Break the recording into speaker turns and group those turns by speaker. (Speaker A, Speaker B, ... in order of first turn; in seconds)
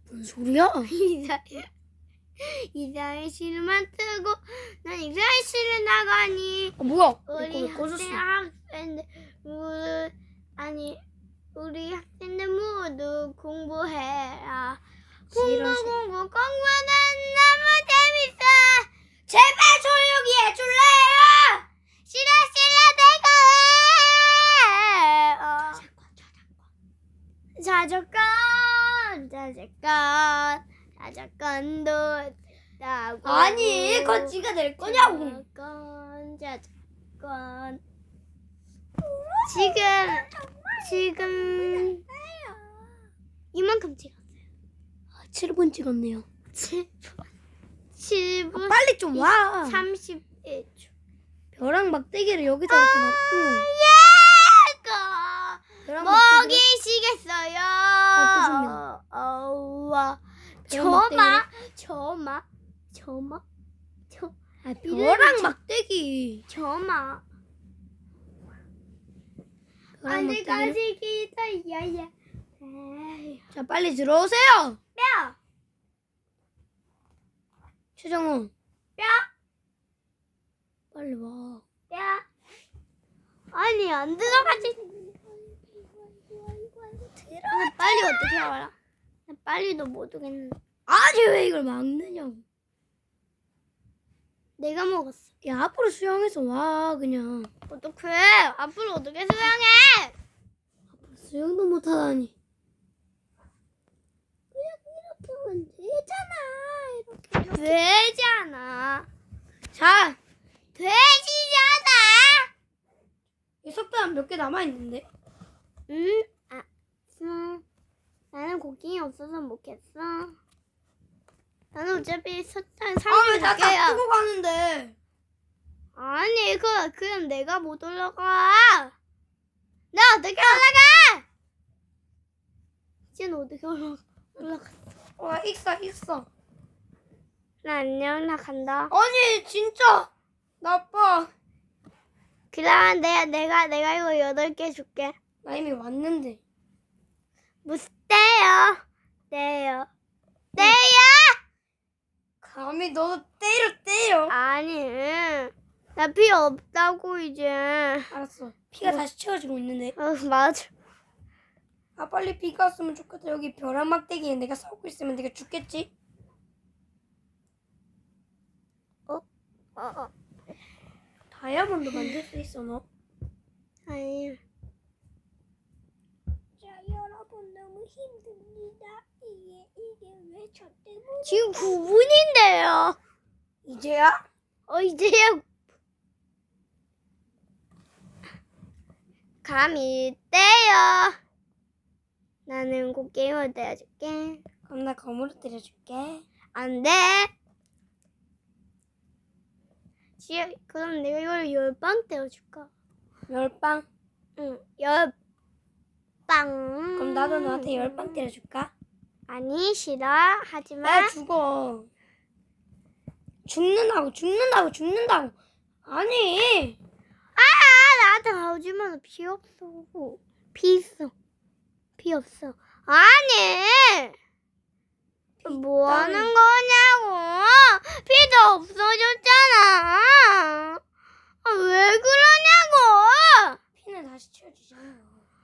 Speaker A: 0.1-0.9, 6.8-8.2, 15.3-16.0, 19.3-21.6, 33.2-35.4, 39.0-42.6, 45.2-46.3, 48.5-49.9, 51.5-53.7, 55.9-56.6, 58.1-58.8, 60.7-61.5, 64.6-66.4, 70.0-70.8, 73.5-74.8, 78.0-78.5, 80.9-81.6, 84.3-85.1, 86.3-88.5, 90.9-92.4, 95.4-97.5, 101.0-102.3, 104.5-107.8, 109.7-110.2, 113.6-115.0, 123.1-125.0, 135.2-136.3, 138.9-140.1, 140.6-141.3, 145.4-146.4, 152.4-154.3, 158.1-160.0, 162.0-165.9, 171.3-172.8, 176.6-181.8, 183.7-184.2, 194.7-196.2, 203.3-203.9, 207.0-208.7, 210.8-211.9, 213.5-216.8, 225.4-226.3, 233.8-235.2
Speaker B: 0.9-1.7, 2.4-6.8, 7.3-11.0, 11.6-18.9, 22.1-25.9, 27.6-37.8, 39.5-40.3, 40.8-42.0, 43.5-44.2, 46.5-47.1, 48.0-50.9, 52.7-63.4, 64.1-65.5, 66.5-67.2, 70.1-73.4, 75.0-75.4, 79.0-79.3, 81.9-82.2, 83.5-84.8, 87.5-88.7, 89.3-90.6, 94.6-95.3, 97.7-100.2, 107.5-109.1, 110.8-112.5, 115.9-117.6, 118.3-120.4, 121.7-124.0, 126.0-128.9, 129.9-131.2, 133.2-134.7, 137.6-138.9, 142.5-145.2, 147.7-149.9, 150.6-151.4, 154.3-158.1, 160.0-160.7, 169.8-170.1, 173.9-174.4, 181.2-183.0, 184.7-185.4, 189.4-191.2, 192.5-194.4, 196.5-197.3, 200.2-202.7, 204.4-205.1, 206.3-208.2, 209.3-211.2, 217.4-221.1, 222.0-224.2, 225.5-230.8, 231.4-233.6